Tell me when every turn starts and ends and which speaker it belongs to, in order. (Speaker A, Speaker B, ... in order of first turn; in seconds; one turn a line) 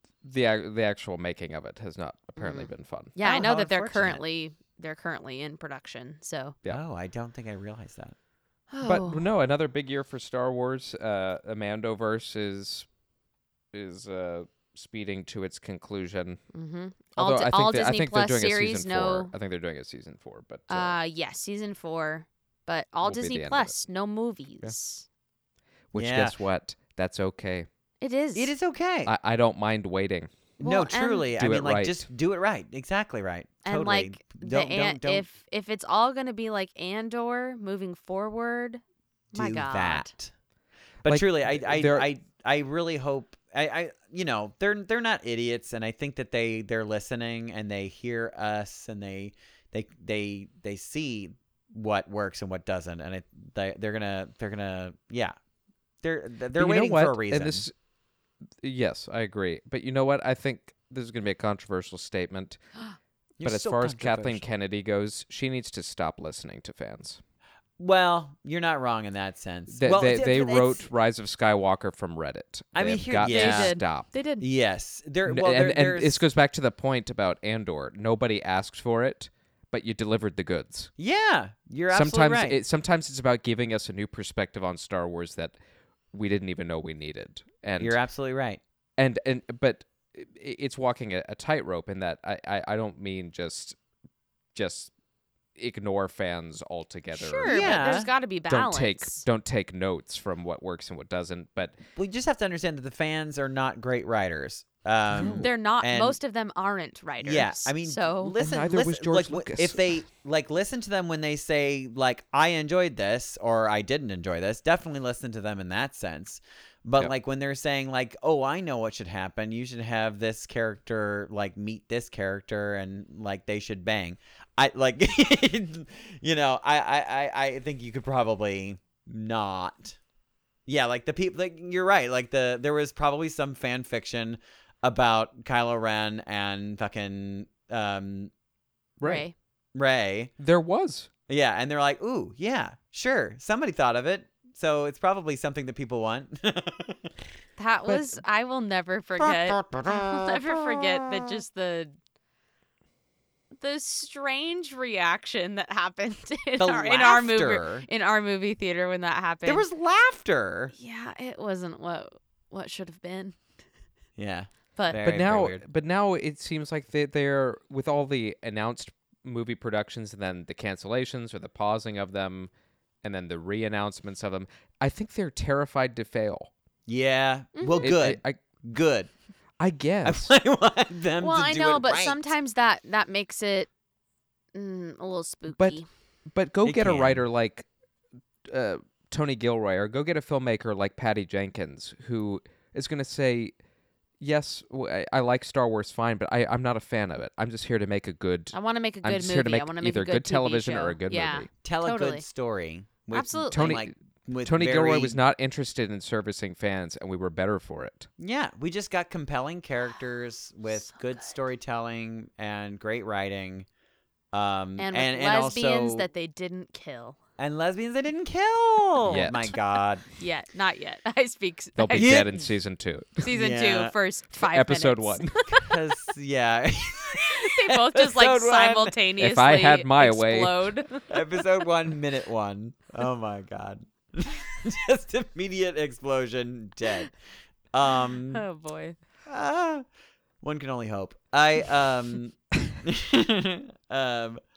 Speaker A: 0.2-3.1
Speaker B: 2.4-6.5
Speaker C: 3.2-4.2
Speaker C: 6.7-8.1
Speaker B: 8.7-9.2
Speaker A: 8.8-12.9
Speaker A: 13.7-16.4
Speaker B: 16.5-19.3
Speaker A: 17.1-20.9
Speaker B: 20.7-25.1
Speaker A: 23.0-23.8
Speaker A: 25.9-27.7
Speaker C: 25.9-26.3
Speaker B: 28.0-28.5
Speaker C: 28.3-29.1
Speaker A: 29.0-30.3
Speaker C: 30.6-35.2
Speaker B: 30.6-31.3
Speaker A: 31.4-32.1
Speaker B: 33.6-38.8
Speaker B: 39.3-40.1
Speaker C: 39.3-40.3
Speaker C: 41.0-55.3
Speaker A: 41.0-42.1
Speaker C: 56.0-57.7
Speaker A: 56.5-57.7
Speaker A: 58.6-62.6
Speaker C: 63.4-64.5
Speaker A: 63.4-67.2
Speaker C: 67.8-70.8
Speaker A: 69.7-74.1
Speaker C: 72.7-73.8
Speaker B: 73.2-74.5
Speaker C: 74.4-76.2
Speaker A: 75.2-80.9
Speaker C: 81.0-82.6
Speaker A: 81.9-85.5
Speaker A: 86.1-88.0
Speaker C: 87.8-88.6
Speaker A: 89.0-93.8
Speaker A: 94.5-94.9
Speaker A: 95.5-101.8
Speaker B: 97.1-99.2
Speaker C: 97.5-98.1
Speaker C: 101.9-106.2
Speaker A: 105.1-105.5
Speaker B: 105.3-108.3
Speaker C: 107.2-130.0
Speaker A: 108.4-109.8
Speaker C: 130.7-138.3
Speaker A: 139.0-139.2
Speaker B: 139.0-139.3
Speaker C: 139.7-140.3
Speaker A: 140.4-141.1
Speaker C: 141.3-147.1
Speaker B: 147.6-151.9
Speaker A: 147.9-148.2
Speaker C: 149.2-151.4
Speaker B: 153.6-159.7
Speaker C: 156.6-157.8
Speaker C: 159.4-160.7
Speaker B: 160.8-163.4
Speaker C: 164.2-165.6
Speaker B: 164.8-165.0
Speaker A: 165.0-172.5
Speaker A: 173.0-176.5
Speaker C: 176.9-179.1
Speaker B: 177.6-177.9
Speaker A: 177.8-178.4
Speaker A: 179.6-180.3
Speaker C: 180.0-182.3
Speaker B: 181.2-183.7
Speaker B: 184.5-185.8
Speaker A: 185.5-187.7
Speaker C: 186.6-187.2
Speaker A: 188.5-193.5
Speaker A: 194.2-201.5
Speaker B: 198.5-202.2
Speaker C: 201.6-205.2
Speaker B: 203.1-203.8
Speaker A: 203.5-208.1
Speaker C: 208.2-213.7
Speaker B: 210.7-211.2
Speaker C: 214.3-216.1
Speaker B: 214.8-217.2
Speaker C: 217.4-220.1
Speaker A: 219.1-219.5
Speaker B: 220.2-222.2
Speaker A: 221.8-223.2
Speaker C: 221.9-222.4
Speaker B: 223.2-225.8
Speaker C: 223.2-223.9
Speaker A: 224.4-225.4
Speaker C: 225.5-229.0
Speaker B: 227.1-231.4
Speaker A: 229.2-230.7
Speaker C: 231.1-237.1
Speaker C: 237.7-238.4
Speaker B: 238.3-239.0
Speaker C: 239.3-239.8
Speaker C: 240.4-244.4